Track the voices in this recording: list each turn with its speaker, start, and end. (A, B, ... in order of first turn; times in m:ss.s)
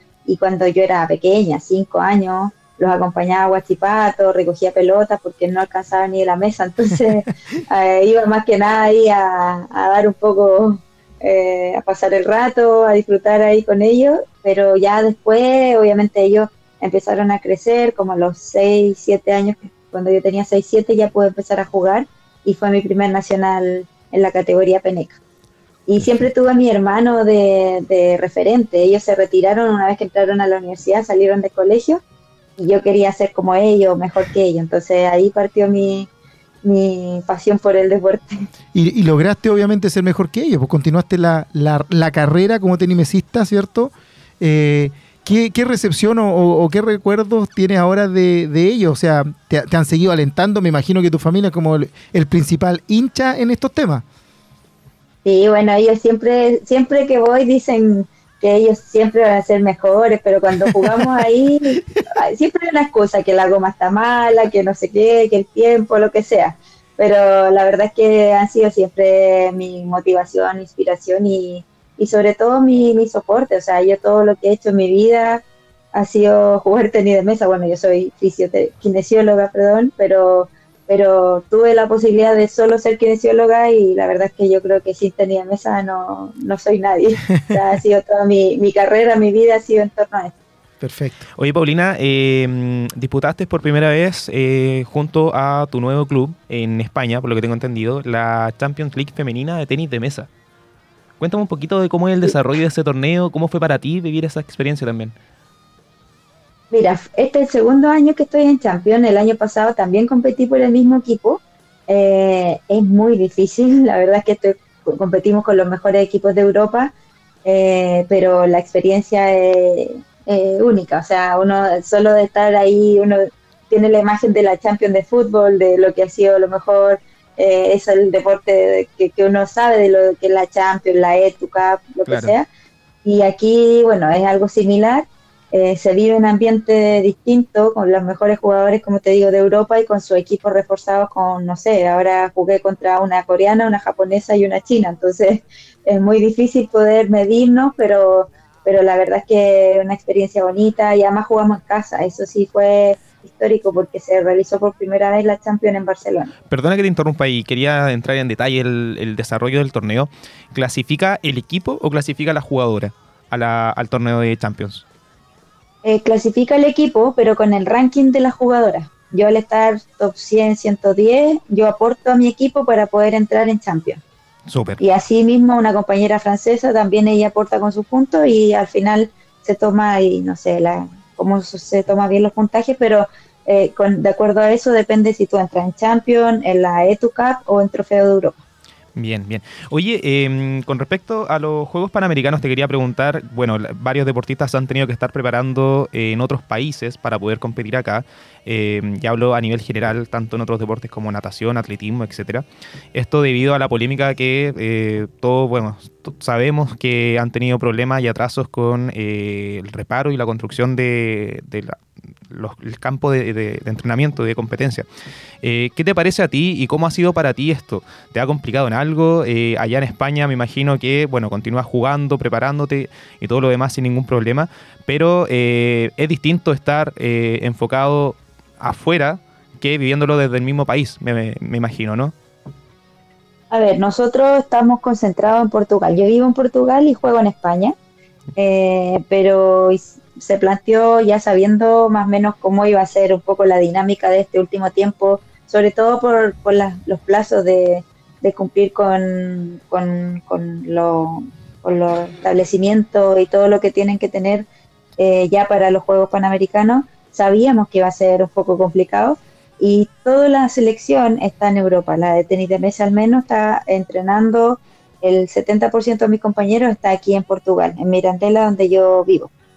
0:00.3-0:25.2 A
0:25.9-0:32.0 A
0:32.6-0:36.1 A
0:36.6-0:38.5 A
0:38.7-0:54.0 B
0:55.2-1:15.4 A
1:15.9-1:30.3 A
1:30.8-1:31.2 B
1:31.4-1:40.3 C
1:41.2-1:45.1 C
1:46.7-1:56.9 A
1:57.4-2:12.5 A
2:12.1-2:12.3 C
2:13.0-2:36.3 A
2:36.5-2:44.8 C
2:45.8-2:54.0 A
2:54.5-2:54.8 C
2:54.8-3:08.4 A
3:09.0-3:34.9 C
3:35.4-3:52.1 C
3:53.5-3:57.8 A
3:58.4-4:14.5 A
4:15.0-4:29.3 A